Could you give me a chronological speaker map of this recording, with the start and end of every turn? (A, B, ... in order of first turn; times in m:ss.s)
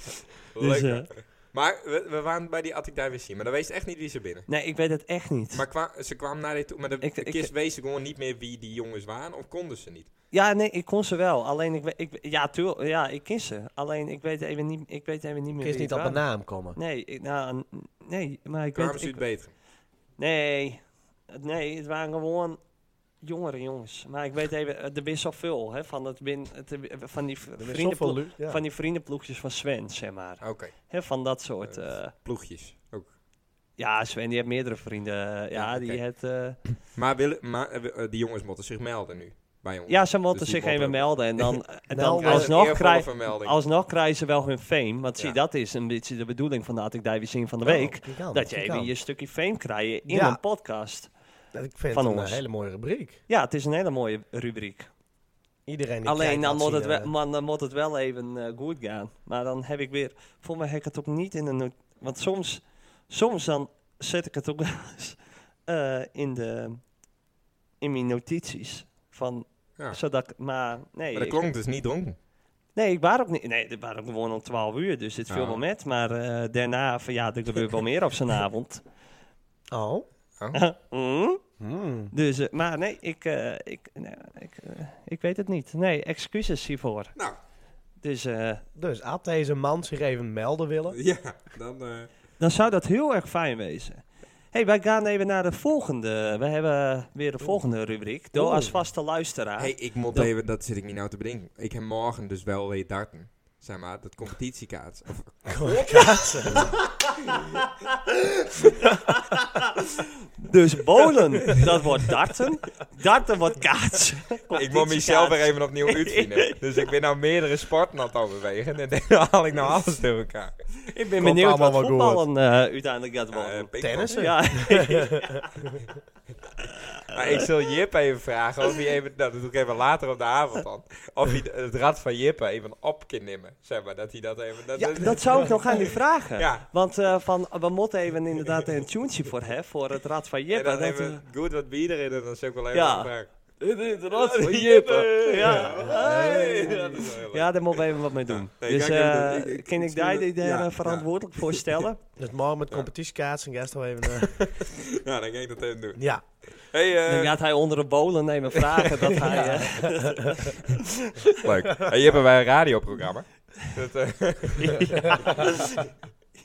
0:00.5-0:04.5 A
0:00.6-0:01.1 B
0:04.5-0:05.6 B
0:05.5-0:10.1 A
0:07.0-0:07.5 B
0:10.3-0:16.2 B
0:15.6-0:16.8 C
0:16.8-0:19.2 B
0:18.8-0:19.5 A
0:20.2-0:22.6 B
0:23.2-0:32.1 B
0:27.6-0:28.6 C
0:30.4-0:30.7 A
0:31.7-0:33.1 A
0:33.8-0:36.6 B
0:35.6-0:36.0 A
0:36.9-0:41.6 A
0:39.9-0:51.1 B
0:41.9-0:42.6 C
0:42.2-0:43.6 A
0:47.6-0:48.9 C
0:50.1-0:50.4 C
0:51.5-0:53.2 C
0:51.9-0:52.4 B
0:53.3-0:54.9 B
0:55.7-0:57.1 C
0:56.0-1:06.8 B
1:07.8-1:11.4 B
1:11.2-1:12.2 A
1:12.8-1:18.8 B
1:15.3-1:15.6 A
1:19.7-1:20.1 C
1:20.5-1:21.4 B
1:21.6-1:22.1 C
1:22.1-1:27.1 B
1:28.0-1:28.6 B
1:28.8-1:31.0 C
1:30.9-1:32.1 A
1:32.4-1:40.3 B
1:38.4-1:38.7 C
1:39.6-1:46.8 A
1:45.5-1:46.8 C
1:48.8-1:49.6 B
1:50.4-1:56.8 B
1:54.5-2:00.5 A
2:00.8-2:05.4 B
2:01.2-2:02.2 C
2:03.3-2:04.2 A
2:03.8-2:05.7 C
2:06.7-2:07.4 B
2:07.1-2:16.7 A
2:14.8-2:21.2 B
2:20.5-2:23.3 A
2:22.7-2:23.1 B
2:23.6-2:32.0 B
2:24.1-2:27.5 A
2:25.4-2:27.0 C
2:28.3-2:31.8 A
2:32.2-2:34.5 C
2:34.1-2:36.0 A
2:36.0-2:36.2 C
2:36.6-2:37.4 A
2:37.1-2:41.3 B
2:39.2-2:40.4 C
2:41.4-2:45.8 A
2:44.6-2:45.5 B